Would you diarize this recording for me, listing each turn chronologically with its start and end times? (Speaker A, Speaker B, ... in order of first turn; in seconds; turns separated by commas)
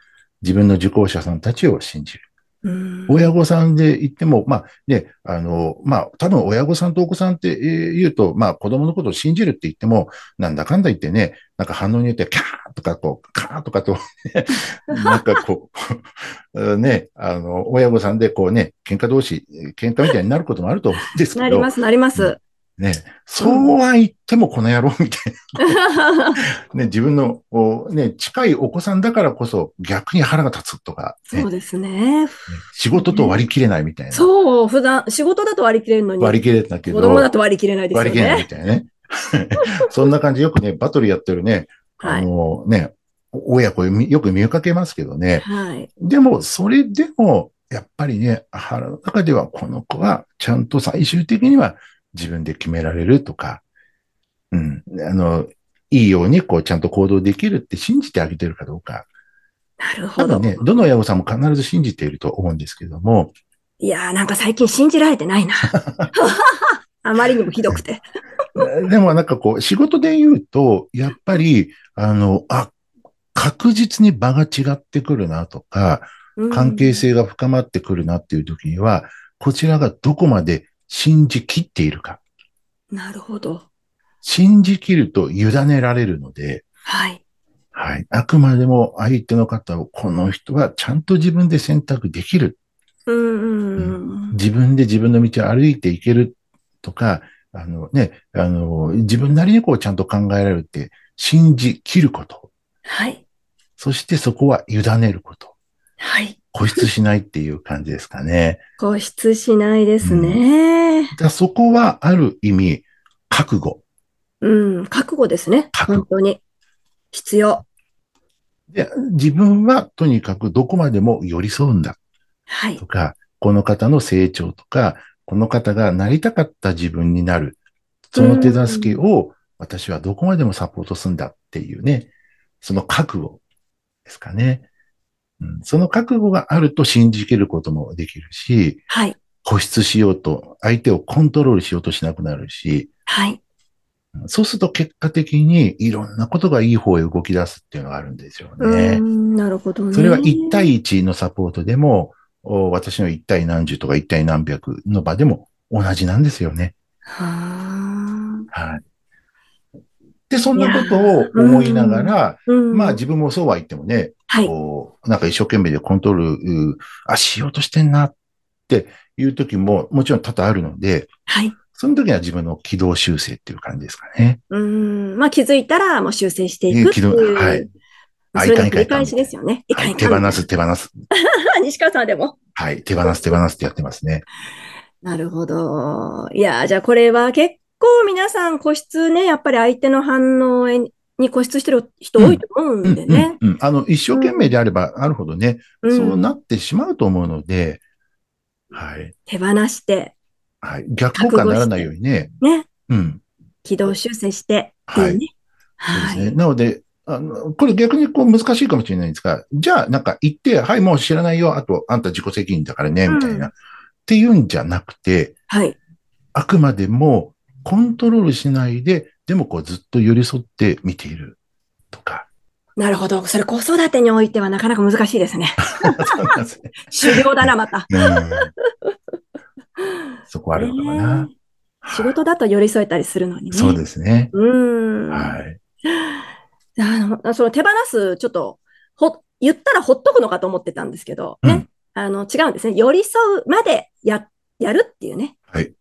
Speaker A: 0.4-2.2, Speaker B: 2.6-3.3, Speaker A: 3.1-31.5, Speaker B: 21.4-22.4, Speaker B: 23.4-23.7, Speaker B: 25.6-26.4, Speaker B: 31.3-33.4, Speaker A: 32.5-34.3, Speaker B: 34.1-38.5, Speaker A: 36.2-37.3, Speaker A: 37.9-45.5, Speaker B: 42.0-42.3, Speaker B: 45.4-45.9, Speaker A: 46.0-53.6, Speaker A: 54.5-59.1, Speaker B: 59.8-60.6, Speaker A: 60.2-63.3, Speaker B: 63.8-68.0, Speaker A: 65.7-66.1, Speaker A: 68.5-72.7, Speaker A: 73.3-82.2, Speaker B: 76.4-77.0, Speaker B: 82.9-83.7, Speaker A: 84.2-86.7, Speaker B: 86.9-87.2, Speaker A: 87.7-92.6, Speaker B: 93.1-94.4, Speaker A: 93.8-102.5, Speaker B: 102.9-103.2, Speaker A: 103.8-105.5, Speaker B: 106.0-106.8, Speaker A: 106.5-108.6, Speaker B: 108.8-111.1, Speaker A: 110.0-110.4, Speaker A: 111.1-113.8, Speaker B: 114.4-116.4, Speaker A: 115.7-116.1, Speaker B: 117.1-117.7, Speaker A: 118.7-122.0, Speaker B: 122.5-122.8, Speaker A: 122.8-127.6, Speaker A: 128.1-132.1, Speaker B: 128.2-129.0, Speaker A: 132.6-133.4, Speaker A: 134.1-134.7, Speaker A: 135.4-138.9, Speaker B: 138.9-139.2, Speaker A: 139.4-142.9, Speaker B: 143.1-143.4, Speaker A: 144.2-149.0, Speaker B: 148.6-150.7, Speaker A: 149.9-156.7, Speaker B: 157.1-158.5, Speaker A: 158.5-158.8, Speaker A: 160.3-168.2, Speaker B: 160.6-163.0, Speaker A: 168.7-171.1, Speaker B: 171.3-171.6, Speaker A: 171.7-174.4, Speaker B: 174.5-177.7, Speaker A: 176.7-177.7, Speaker A: 178.3-180.9, Speaker B: 178.3-180.4, Speaker B: 181.1-182.3, Speaker A: 182.6-184.2, Speaker B: 183.0-183.4, Speaker B: 185.0-193.4, Speaker A: 192.2-197.8, Speaker B: 194.1-194.5, Speaker B: 195.8-196.2, Speaker A: 198.7-199.1, Speaker B: 199.3-200.2, Speaker A: 200.6-202.3, Speaker B: 201.2-201.9, Speaker B: 202.4-202.7, Speaker A: 202.9-203.2, Speaker B: 203.6-205.3, Speaker A: 204.9-205.2, Speaker B: 205.8-206.3, Speaker A: 205.9-213.6, Speaker B: 213.1-213.5, Speaker A: 214.1-215.4, Speaker B: 215.5-215.8, Speaker A: 216.3-221.4, Speaker A: 221.9-222.3, Speaker B: 222.8-226.3, Speaker A: 225.7-228.5, Speaker B: 226.9-228.2, Speaker A: 230.3-231.3, Speaker B: 230.5-231.3, Speaker A: 231.8-232.1, Speaker B: 231.9-233.8, Speaker A: 233.5-234.3, Speaker B: 234.3-236.2, Speaker A: 235.1-235.6, Speaker B: 236.8-245.3